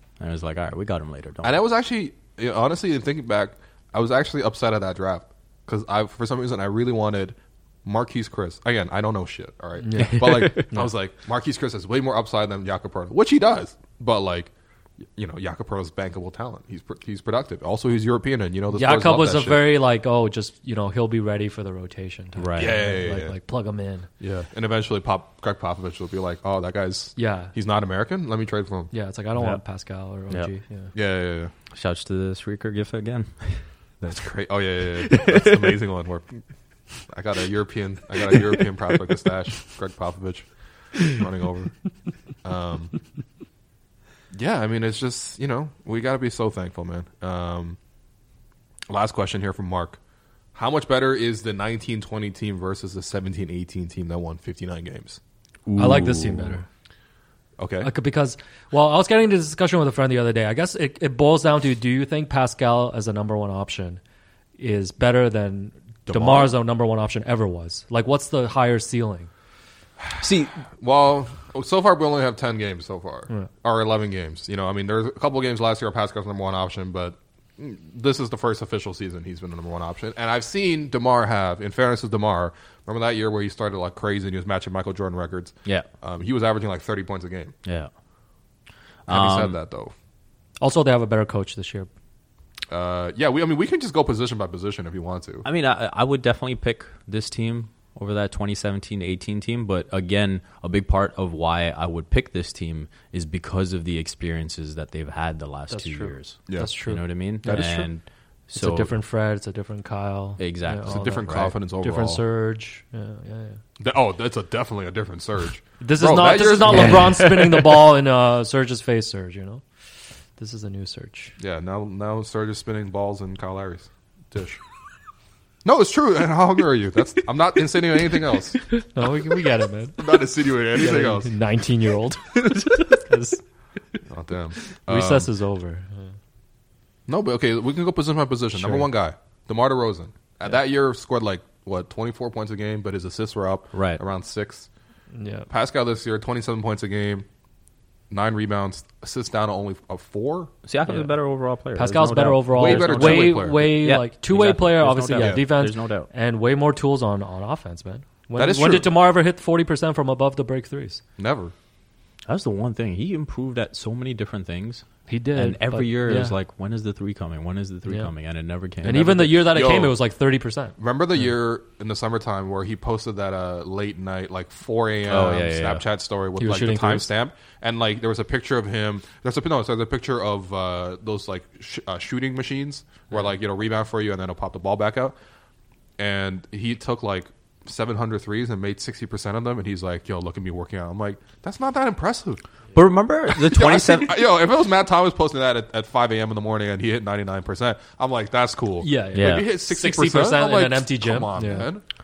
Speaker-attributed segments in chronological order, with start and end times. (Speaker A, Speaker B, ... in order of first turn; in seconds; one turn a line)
Speaker A: 0.2-1.6
Speaker B: 1.4-14.5
Speaker C: 9.8-10.9
Speaker A: 9.9-10.6
Speaker B: 15.2-19.7
Speaker C: 18.7-24.1
Speaker A: 22.4-22.8
Speaker B: 22.6-23.4
Speaker B: 24.2-28.9
Speaker C: 27.1-27.5
Speaker C: 28.9-30.9
Speaker B: 30.9-31.5
Speaker A: 31.7-34.1
Speaker B: 34.0-36.3
Speaker A: 35.0-35.8
Speaker B: 37.1-41.8
Speaker A: 38.3-38.6
Speaker B: 42.4-43.0
Speaker B: 44.3-47.8
Speaker B: 48.9-50.0
Speaker B: 50.5-56.0
Speaker A: 55.7-56.4
Speaker C: 55.8-56.7
Speaker B: 57.6-57.9
Speaker C: 57.8-64.0
Speaker C: 64.6-69.3
Speaker B: 66.1-66.5
Speaker B: 70.0-87.5
Speaker A: 70.2-70.5
Speaker A: 87.6-87.9
Speaker A: 89.1-89.5
Speaker B: 89.1-89.9
Speaker C: 90.6-91.9
Speaker B: 92.7-95.5
Speaker A: 95.4-108.9
Speaker C: 105.7-107.9
Speaker B: 106.5-106.7
Speaker C: 108.5-113.6
Speaker A: 110.4-111.5
Speaker B: 110.8-112.2
Speaker B: 113.8-117.8
Speaker C: 115.8-119.6
Speaker C: 120.4-121.3
Speaker B: 121.4-124.6
Speaker B: 125.6-128.7
Speaker C: 128.6-130.2
Speaker B: 130.0-131.3
Speaker C: 130.7-133.4
Speaker B: 134.1-135.3
Speaker C: 134.9-136.1
Speaker B: 137.1-144.7
Speaker C: 138.5-138.9
Speaker A: 143.7-144.0
Speaker C: 145.1-145.5
Speaker B: 145.5-147.2
Speaker B: 148.1-150.5
Speaker A: 150.7-156.1
Speaker C: 150.8-151.1
Speaker C: 151.8-161.0
Speaker B: 152.5-153.7
Speaker B: 155.2-155.5
Speaker B: 158.4-158.9
Speaker B: 161.2-161.5
Speaker A: 162.3-169.5
Speaker C: 165.1-166.3
Speaker C: 168.8-171.3
Speaker B: 169.4-169.9
Speaker B: 170.8-185.2
Speaker A: 175.1-175.8
Speaker C: 176.4-177.1
Speaker B: 186.0-192.4
Speaker A: 192.7-194.2
Speaker B: 193.3-201.8
Speaker C: 198.8-201.7
Speaker A: 199.1-199.5